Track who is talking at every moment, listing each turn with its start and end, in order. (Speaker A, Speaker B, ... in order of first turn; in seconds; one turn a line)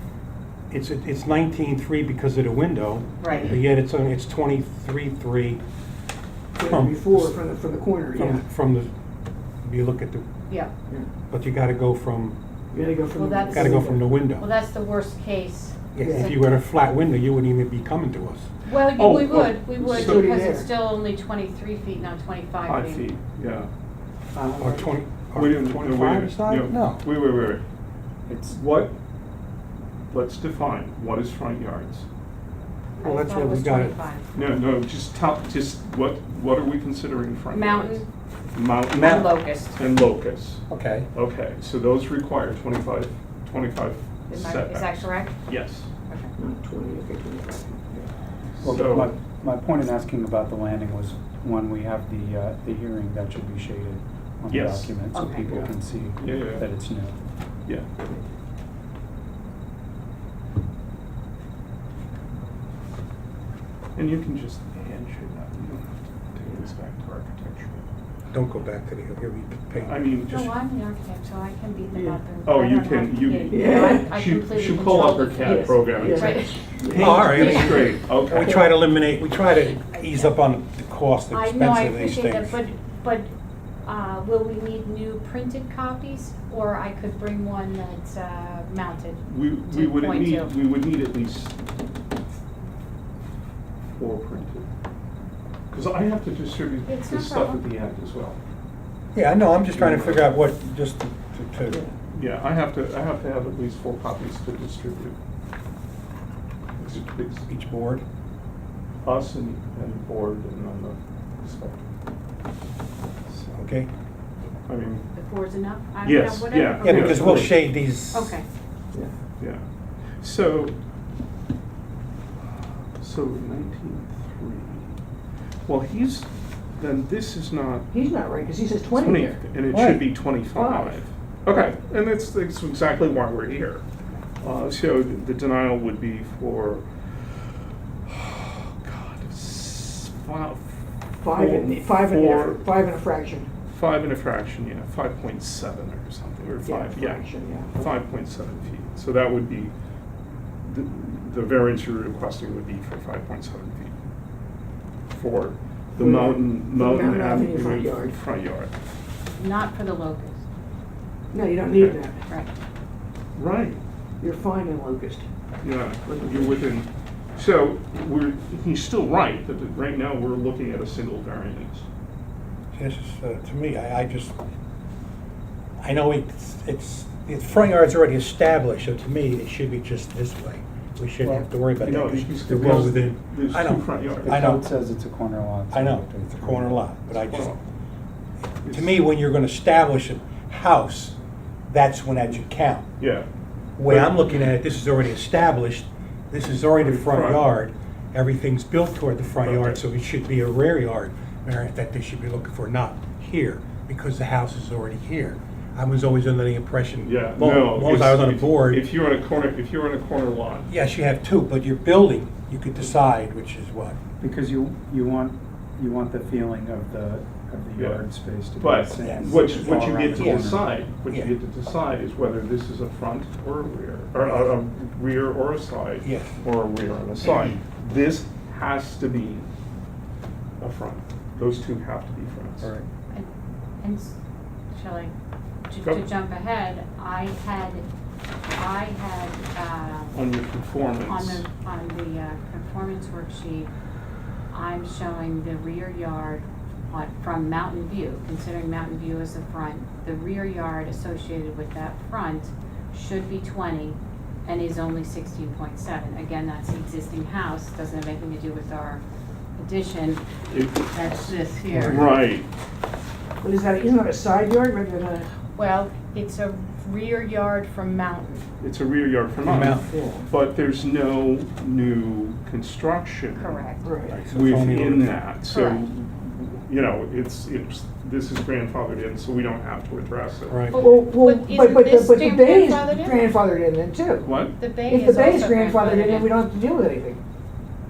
Speaker A: 0.7-5.6
Speaker B: 3.2-3.5
Speaker C: 6.5-8.4
Speaker A: 6.6-7.3
Speaker A: 8.1-8.9
Speaker A: 9.6-10.3
Speaker A: 11.3-12.4
Speaker C: 12.7-14.0
Speaker B: 13.1-16.3
Speaker A: 13.5-14.4
Speaker A: 15.9-18.5
Speaker C: 16.0-16.3
Speaker B: 18.6-23.1
Speaker D: 18.8-20.3
Speaker C: 20.0-20.6
Speaker D: 22.6-23.7
Speaker E: 24.3-24.9
Speaker A: 24.6-27.0
Speaker D: 25.3-27.6
Speaker E: 28.3-28.6
Speaker D: 28.5-28.9
Speaker D: 30.1-32.0
Speaker B: 33.0-34.2
Speaker A: 33.0-34.0
Speaker D: 34.3-45.9
Speaker B: 37.5-38.1
Speaker B: 38.9-39.8
Speaker A: 39.0-39.2
Speaker A: 40.7-41.1
Speaker B: 44.3-45.4
Speaker B: 46.1-46.3
Speaker C: 46.4-47.8
Speaker D: 47.9-49.1
Speaker E: 48.6-57.1
Speaker D: 54.5-54.9
Speaker B: 55.1-55.7
Speaker D: 56.2-56.7
Speaker D: 64.0-67.8
Speaker A: 68.3-70.0
Speaker D: 69.7-70.5
Speaker B: 70.3-77.7
Speaker D: 72.4-78.6
Speaker C: 73.5-74.0
Speaker C: 75.4-76.3
Speaker C: 76.8-77.4
Speaker A: 76.9-82.5
Speaker B: 79.8-80.3
Speaker B: 81.3-83.3
Speaker B: 83.8-90.5
Speaker D: 89.2-91.5
Speaker D: 93.9-94.7
Speaker D: 95.7-98.4
Speaker B: 96.8-97.6
Speaker A: 99.1-101.8
Speaker D: 99.8-100.3
Speaker D: 102.1-105.2
Speaker D: 106.8-107.5
Speaker A: 107.5-108.0
Speaker D: 109.0-111.9
Speaker D: 113.3-113.7
Speaker A: 113.6-113.9
Speaker D: 114.7-115.1
Speaker B: 115.1-118.5
Speaker D: 116.0-117.5
Speaker A: 116.8-118.4
Speaker D: 119.4-120.8
Speaker D: 122.5-125.0
Speaker D: 125.7-127.9
Speaker C: 127.9-129.4
Speaker D: 128.9-133.8
Speaker A: 129.6-130.0
Speaker C: 130.5-131.0
Speaker D: 134.4-137.3
Speaker D: 138.1-142.6
Speaker C: 141.2-143.5
Speaker D: 143.7-149.7
Speaker C: 146.6-147.7
Speaker D: 150.6-154.0
Speaker D: 155.1-158.7
Speaker C: 156.0-158.1
Speaker B: 159.3-160.4
Speaker C: 161.3-162.2
Speaker D: 161.7-162.0
Speaker D: 163.3-163.8
Speaker C: 164.2-165.3
Speaker D: 165.6-171.8
Speaker A: 172.7-174.3
Speaker A: 175.8-184.6
Speaker E: 181.2-182.8
Speaker D: 181.8-184.6
Speaker E: 184.2-186.9
Speaker A: 185.7-187.6
Speaker D: 187.1-187.6
Speaker D: 188.6-189.0
Speaker A: 188.7-191.2
Speaker A: 191.7-192.9
Speaker D: 193.0-193.3
Speaker A: 193.8-208.8
Speaker D: 193.9-194.5
Speaker D: 196.8-197.5
Speaker D: 199.4-199.8
Speaker D: 207.0-210.7
Speaker A: 210.7-214.0
Speaker E: 214.2-220.7
Speaker D: 217.8-218.1
Speaker D: 218.6-229.5
Speaker A: 219.0-220.3
Speaker A: 224.2-224.5
Speaker A: 226.0-226.3
Speaker D: 230.6-232.7
Speaker B: 233.8-234.1
Speaker B: 234.7-235.1
Speaker B: 235.7-237.8
Speaker B: 238.5-240.2
Speaker D: 240.1-241.4
Speaker B: 241.1-243.7
Speaker B: 244.5-259.0
Speaker B: 259.6-260.2
Speaker D: 260.5-262.5
Speaker B: 260.9-262.1
Speaker C: 263.4-265.3
Speaker B: 265.6-268.4
Speaker D: 268.6-273.7
Speaker A: 269.4-269.9
Speaker C: 269.9-270.2
Speaker B: 273.3-273.9
Speaker C: 273.8-274.2
Speaker A: 274.1-275.2
Speaker D: 274.3-280.8
Speaker B: 275.4-275.9
Speaker A: 280.5-280.8
Speaker B: 280.7-283.1
Speaker C: 280.8-284.3
Speaker D: 284.2-284.6
Speaker B: 284.6-286.4
Speaker C: 284.9-287.2